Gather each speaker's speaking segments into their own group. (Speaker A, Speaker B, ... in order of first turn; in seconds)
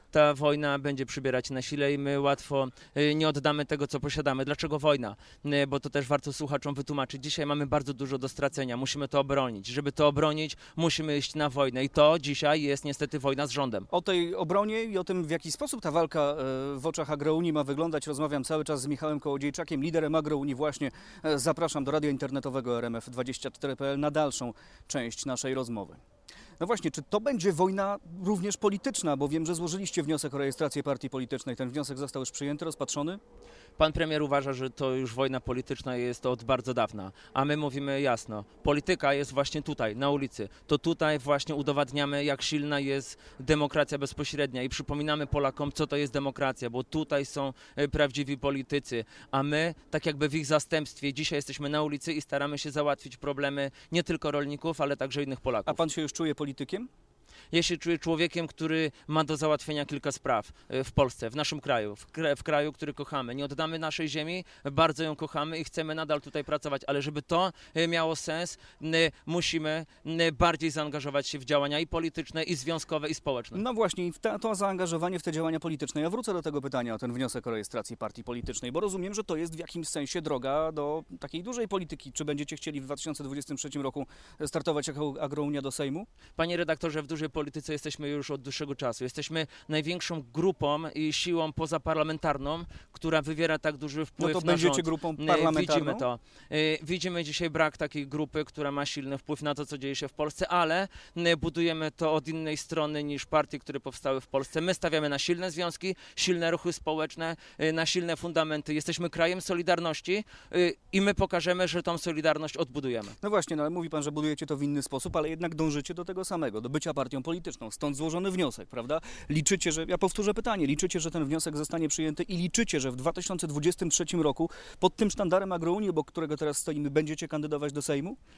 Speaker A: 0.1-13.9, 33.8-55.8, 57.5-73.6, 86.4-113.2
Speaker B: 13.9-26.0, 26.6-33.2, 55.6-56.9, 73.5-86.1, 94.2-96.0, 113.2-128.2